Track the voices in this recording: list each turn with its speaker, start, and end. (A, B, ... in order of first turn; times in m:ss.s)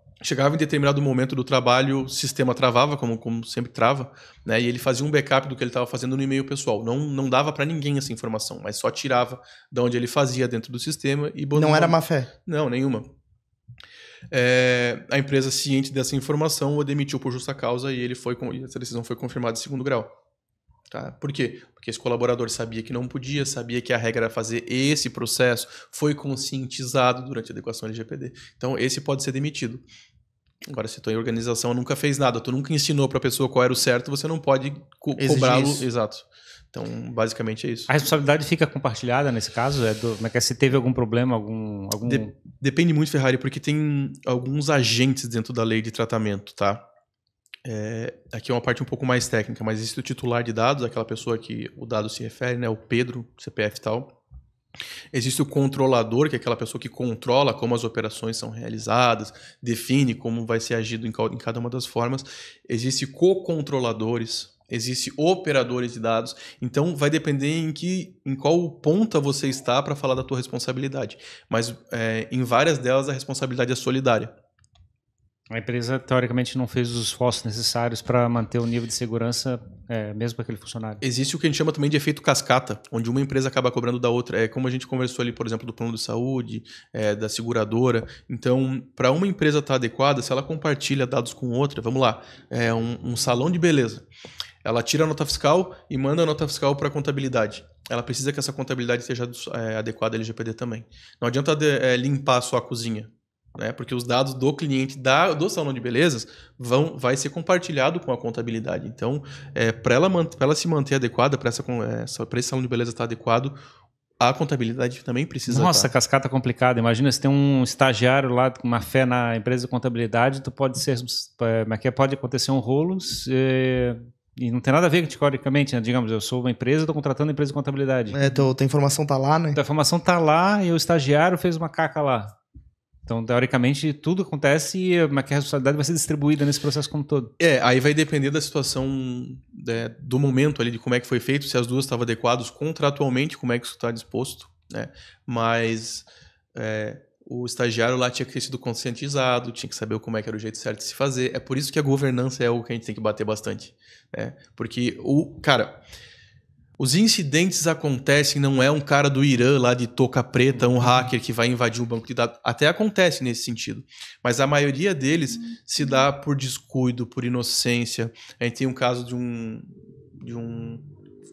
0:00.2-0:13.1 A
0:11.5-0:12.3 B
0:14.3-0:20.1 A
0:20.9-0:29.8 A
0:30.7-0:37.9 A
0:35.2-0:35.9 B
0:37.9-0:42.3 C
0:42.0-0:46.8 A
0:47.6-0:54.1 A
0:55.1-1:14.3 A
1:15.5-1:21.0 C
1:21.0-1:34.1 A
1:34.6-1:53.6 A
1:54.2-1:55.9 A
1:55.5-2:08.2 C
2:08.1-2:09.6 B
2:09.6-2:12.4 C
2:13.1-2:17.3 C
2:17.4-2:35.8 A
2:36.8-2:50.9 A